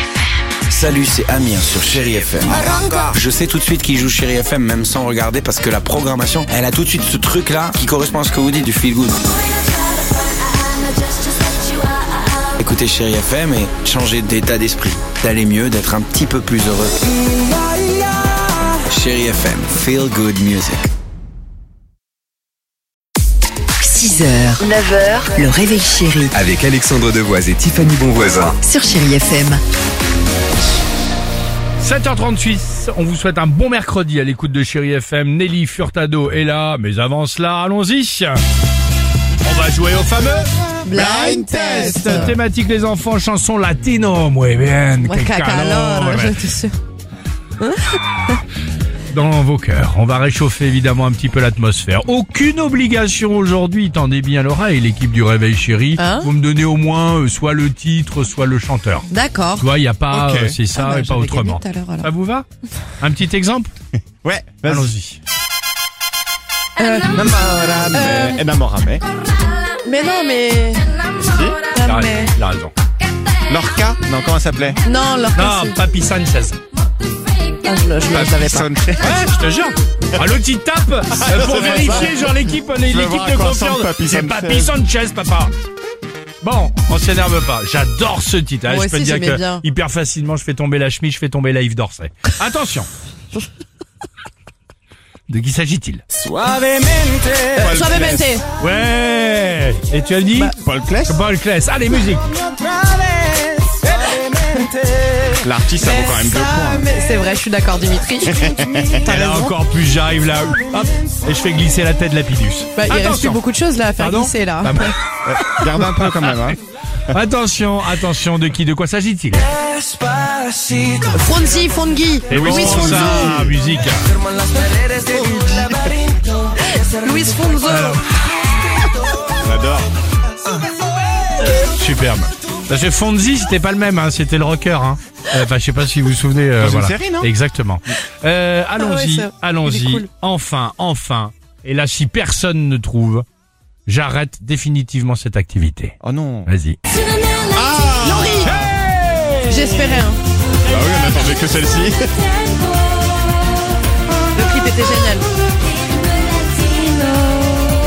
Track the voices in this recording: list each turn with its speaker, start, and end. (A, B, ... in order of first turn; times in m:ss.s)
0:00.7-0:09.2 A
0:12.6-0:17.0 A
0:18.9-0:20.9 A
0:23.8-0:26.4 B
0:26.4-0:28.6 C
0:28.4-0:29.6 B
0:31.8-0:38.4 D
0:39.4-0:40.5 D
0:40.8-0:42.3 E
0:40.9-0:42.3 F
0:41.7-0:46.4 D
0:45.0-0:46.7 E
0:47.6-0:48.4 E
0:49.1-1:02.5 D
0:56.0-0:56.3 E
0:59.1-0:59.7 E
1:00.1-1:00.6 F
1:00.7-1:02.1 E
1:03.0-1:03.7 D
1:04.2-1:04.9 F
1:04.7-1:05.2 D
1:06.8-1:07.3 E
1:07.1-1:09.0 F
1:07.9-1:08.4 E
1:09.8-1:10.9 E
1:11.2-1:11.6 F
1:11.7-1:12.3 E
1:11.8-1:12.7 D
1:13.5-1:14.8 F
1:14.8-1:15.8 E
1:15.4-1:16.6 D
1:17.6-1:18.7 E
1:18.0-1:19.2 F
1:19.0-1:25.5 D
1:21.2-1:24.7 F
1:26.4-1:32.9 D
1:28.7-1:29.6 E
1:35.3-1:36.0 D
1:36.2-1:38.3 F
1:37.5-1:38.4 E
1:38.6-1:42.2 D
1:40.6-1:41.2 F
1:45.4-1:46.9 F
1:45.8-1:49.5 E
1:48.3-1:49.0 F
1:49.0-1:53.4 D
1:52.8-1:54.9 E
1:54.0-1:54.9 D
1:55.2-1:56.6 F
1:55.6-1:56.2 D
1:57.1-1:59.5 D
2:01.1-2:03.4 E
2:02.3-2:04.1 D
2:02.3-2:03.6 F
2:05.1-2:06.0 F
2:06.7-2:08.0 E
2:07.7-2:08.0 D
2:09.4-2:09.9 F
2:11.6-2:23.3 D
2:16.6-2:17.3 F
2:18.8-2:20.1 E
2:23.9-2:26.0 D
2:26.0-2:26.5 F
2:26.5-2:26.8 D
2:27.4-2:28.7 F
2:28.0-2:28.5 E
2:28.4-2:30.0 D
2:29.4-2:30.2 E
2:30.7-2:32.2 F
2:34.4-2:35.3 E
2:36.4-2:37.6 E